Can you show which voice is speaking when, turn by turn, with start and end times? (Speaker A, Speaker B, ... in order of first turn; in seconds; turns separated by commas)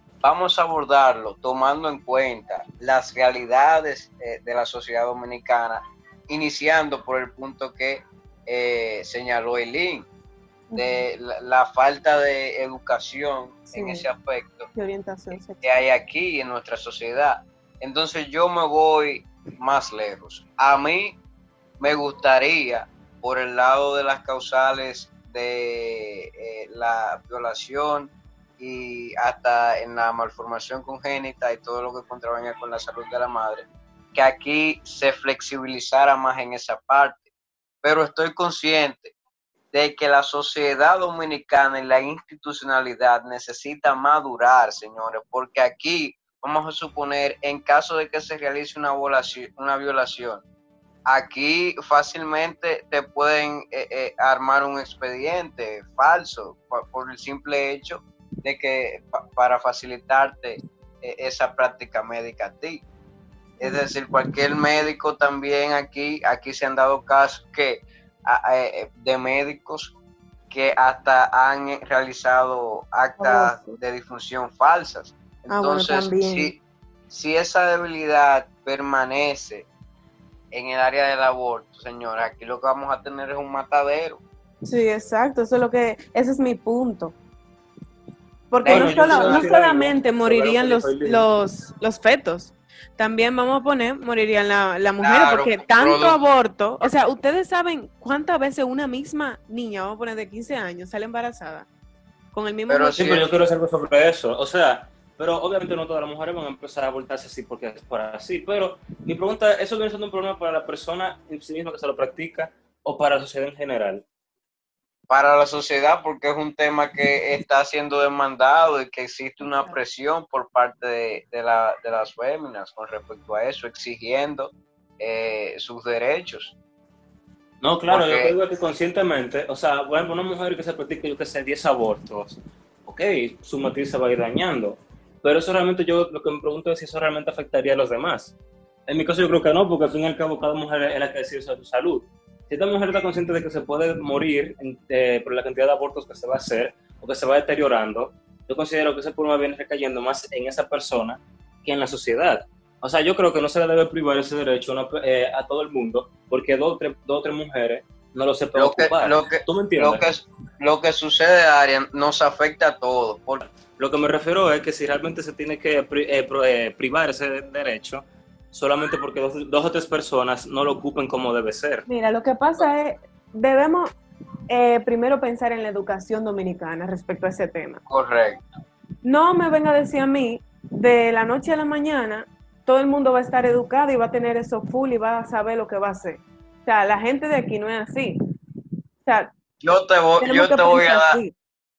Speaker A: 0.2-10.1, Speaker B: 10.7-11.0, Speaker A: 10.8-14.7, Speaker B: 13.7-14.1, Speaker B: 14.7-15.6, Speaker A: 15.6-21.2, Speaker A: 21.8-37.3, Speaker A: 37.8-39.1, Speaker A: 39.7-50.4, Speaker A: 51.1-62.9, Speaker A: 63.6-70.0, Speaker A: 70.5-76.6, Speaker B: 73.2-73.7, Speaker B: 75.5-76.5, Speaker A: 77.1-79.7, Speaker A: 80.5-84.2, Speaker B: 84.6-87.1, Speaker B: 88.5-101.7, Speaker A: 88.6-89.5, Speaker C: 88.7-91.3, Speaker A: 95.0-96.2, Speaker B: 102.3-103.1, Speaker A: 102.7-103.3, Speaker C: 103.0-114.0, Speaker A: 115.1-126.5, Speaker C: 127.6-138.3, Speaker A: 127.9-128.3, Speaker C: 138.9-160.0, Speaker A: 158.6-163.4, Speaker C: 163.7-171.9, Speaker B: 171.9-173.9, Speaker B: 174.5-177.8, Speaker A: 177.9-178.4, Speaker B: 179.0-188.2, Speaker B: 189.1-189.3, Speaker A: 189.6-191.2, Speaker B: 190.2-191.3